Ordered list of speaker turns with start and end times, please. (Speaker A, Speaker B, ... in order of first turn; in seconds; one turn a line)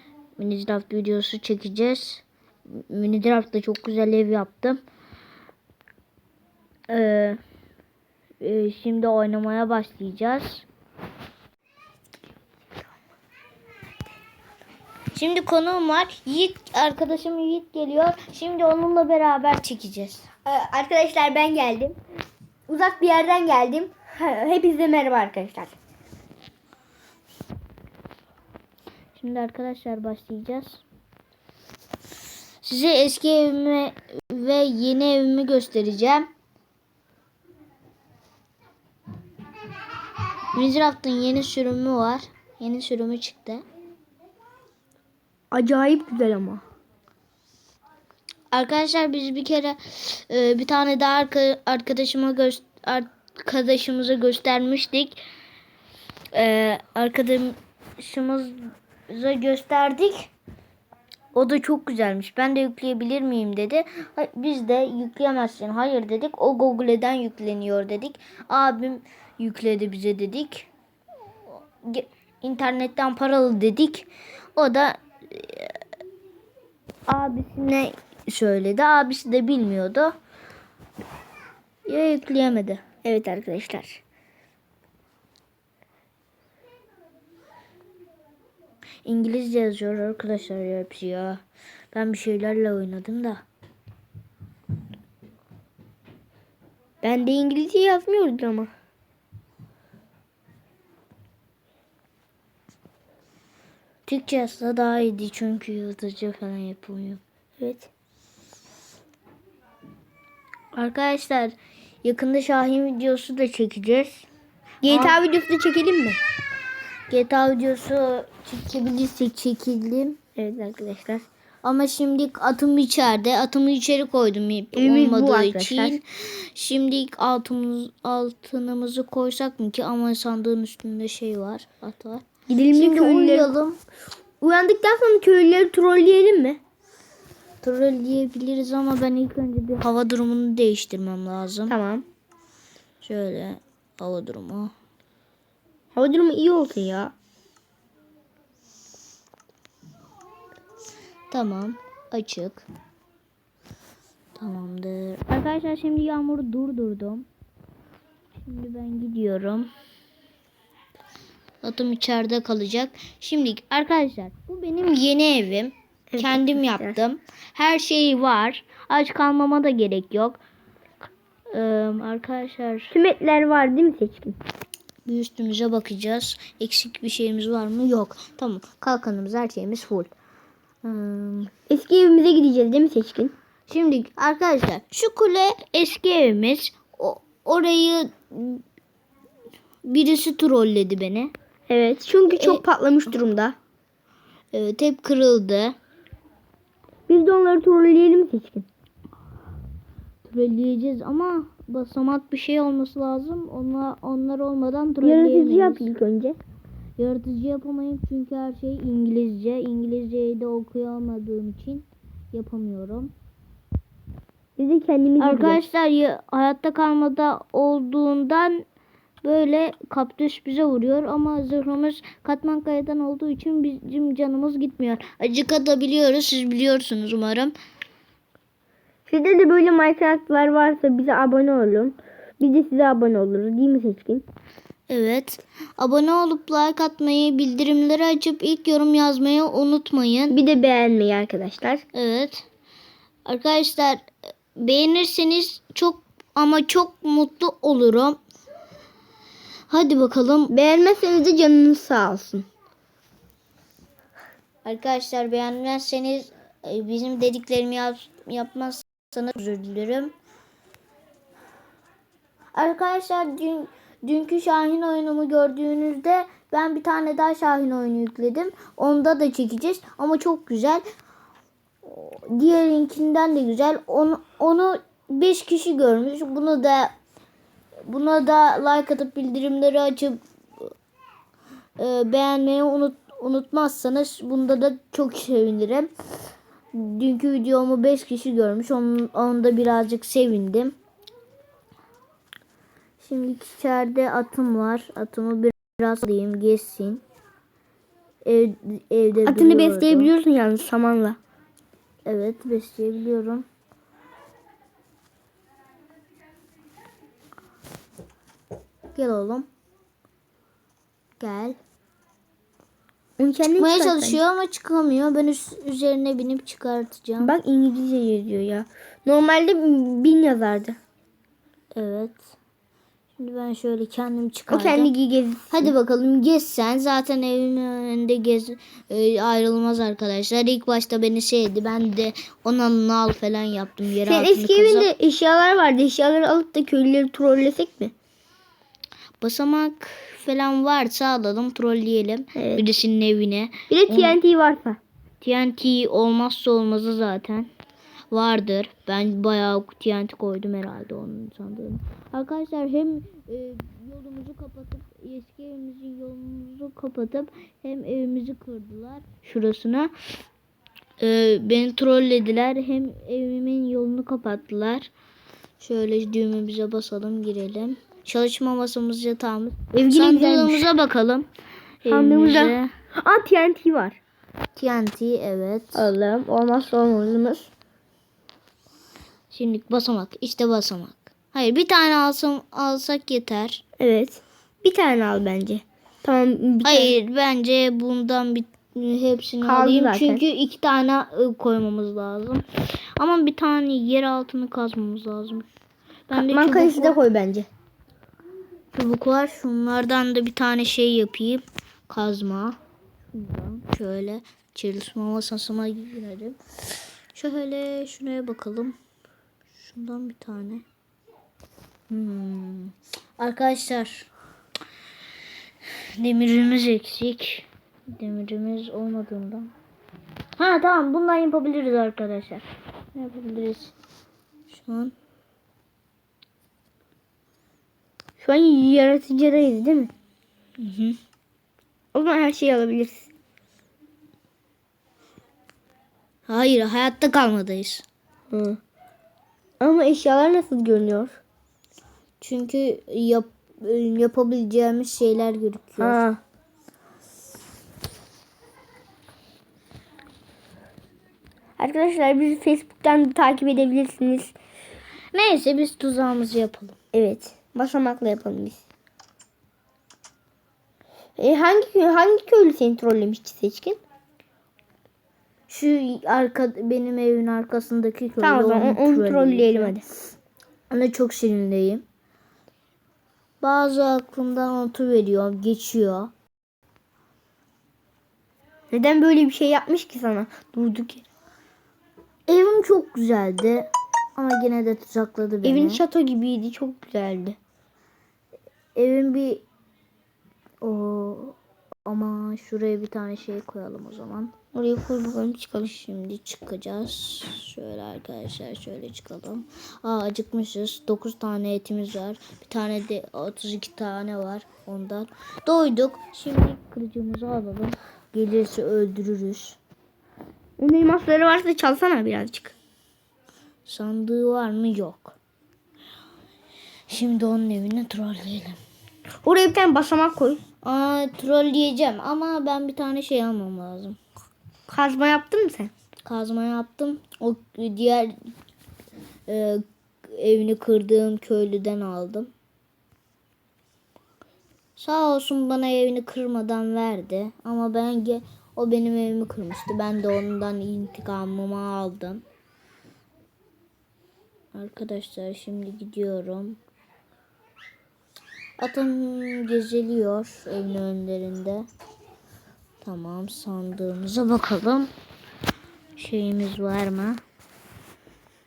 Speaker A: 0.4-4.8
Speaker A: 6.9-7.4
Speaker A: 8.4-10.7
Speaker A: 15.1-20.3
Speaker B: 20.4-22.0
Speaker B: 22.7-25.8
Speaker A: 29.2-30.8
Speaker A: 32.6-36.3
Speaker A: 40.5-43.6
Speaker B: 45.5-46.6
Speaker A: 48.5-55.2
Speaker A: 56.3-60.3
Speaker A: 61.3-70.7
Speaker A: 71.8-75.8
Speaker A: 77.1-80.1
Speaker A: 81.9-82.8
Speaker B: 83.0-84.0
Speaker A: 89.0-93.4
Speaker B: 97.0-98.7
Speaker A: 104.1-107.2
Speaker B: 107.6-107.9
Speaker A: 110.8-114.3
Speaker B: 114.8-116.2
Speaker A: 114.9-115.2
Speaker A: 117.1-120.2
Speaker B: 120.4-121.3
Speaker A: 121.6-133.8
Speaker B: 124.7-126.0
Speaker B: 132.5-133.5
Speaker B: 134.4-136.6
Speaker A: 137.6-141.8
Speaker B: 141.7-142.1
Speaker A: 143.0-144.7
Speaker B: 145.9-147.1
Speaker A: 151.3-152.7
Speaker A: 154.4-157.3
Speaker A: 158.4-159.7
Speaker A: 161.6-170.4
Speaker B: 166.1-167.0
Speaker A: 171.5-172.9
Speaker B: 172.9-174.4
Speaker A: 175.1-180.1
Speaker A: 180.8-181.5
Speaker B: 181.7-183.3
Speaker A: 183.7-188.6
Speaker A: 189.8-191.3
Speaker B: 191.7-193.6
Speaker A: 192.3-192.6
Speaker A: 194.5-195.8
Speaker B: 197.1-198.7
Speaker A: 200.2-205.9
Speaker B: 205.0-206.4
Speaker A: 207.0-213.1
Speaker B: 214.6-215.6
Speaker A: 215.2-218.7
Speaker A: 219.2-227.5
Speaker B: 229.1-234.3
Speaker A: 234.9-240.4
Speaker B: 240.3-241.8
Speaker A: 241.9-242.4
Speaker A: 243.2-248.2
Speaker A: 249.7-250.5
Speaker B: 250.5-252.5
Speaker A: 254.6-260.1
Speaker A: 262.5-270.8
Speaker A: 271.8-276.9
Speaker A: 277.9-280.7
Speaker A: 281.8-285.9
Speaker A: 286.7-290.8
Speaker A: 293.0-297.0
Speaker A: 298.2-300.1
Speaker B: 299.3-301.2
Speaker A: 302.1-303.5
Speaker A: 308.9-309.5
Speaker A: 311.2-311.6
Speaker B: 313.2-314.2
Speaker A: 313.6-317.3
Speaker B: 317.2-320.8
Speaker A: 321.7-322.2
Speaker A: 323.2-324.9
Speaker B: 324.5-325.7
Speaker A: 325.5-334.9
Speaker B: 334.1-337.9
Speaker A: 339.2-344.2
Speaker B: 342.4-342.6
Speaker B: 343.7-344.8
Speaker A: 345.2-347.5
Speaker A: 348.1-359.9
Speaker A: 361.0-364.9
Speaker A: 365.6-371.3
Speaker B: 369.7-370.7
Speaker A: 371.8-372.7
Speaker B: 371.9-374.0
Speaker A: 374.6-375.9
Speaker B: 375.7-377.5
Speaker A: 379.3-383.6
Speaker B: 383.8-386.9
Speaker A: 386.6-395.5
Speaker B: 389.4-390.2
Speaker A: 396.1-397.0
Speaker B: 396.1-397.5
Speaker A: 398.7-402.6
Speaker A: 403.1-406.4
Speaker A: 407.1-408.8
Speaker A: 409.6-410.6
Speaker A: 411.9-414.1
Speaker A: 416.0-419.5
Speaker A: 420.4-422.4
Speaker A: 422.9-423.7
Speaker A: 424.5-424.9
Speaker B: 428.2-429.9
Speaker A: 430.6-431.0
Speaker B: 431.9-433.1
Speaker A: 436.3-437.9
Speaker B: 438.3-438.6
Speaker B: 439.6-441.2
Speaker A: 442.2-446.0
Speaker B: 445.8-446.2
Speaker B: 451.6-454.4
Speaker A: 455.1-456.8
Speaker B: 456.9-458.6
Speaker B: 461.2-463.8
Speaker A: 465.5-469.8
Speaker B: 468.2-469.8
Speaker A: 470.7-471.8
Speaker A: 473.4-476.1
Speaker B: 478.7-481.1
Speaker A: 482.3-485.8
Speaker B: 485.4-487.4
Speaker A: 488.8-489.4
Speaker A: 490.6-494.3
Speaker B: 494.5-495.7
Speaker A: 495.6-509.6
Speaker B: 510.6-512.5
Speaker A: 513.7-515.2
Speaker A: 516.9-518.6
Speaker B: 519.2-520.4
Speaker A: 520.6-524.0
Speaker B: 524.7-525.7
Speaker A: 526.0-528.2
Speaker A: 529.3-532.3
Speaker A: 534.8-542.2
Speaker A: 544.5-546.6
Speaker A: 548.6-551.7
Speaker A: 552.8-554.9
Speaker A: 556.0-557.2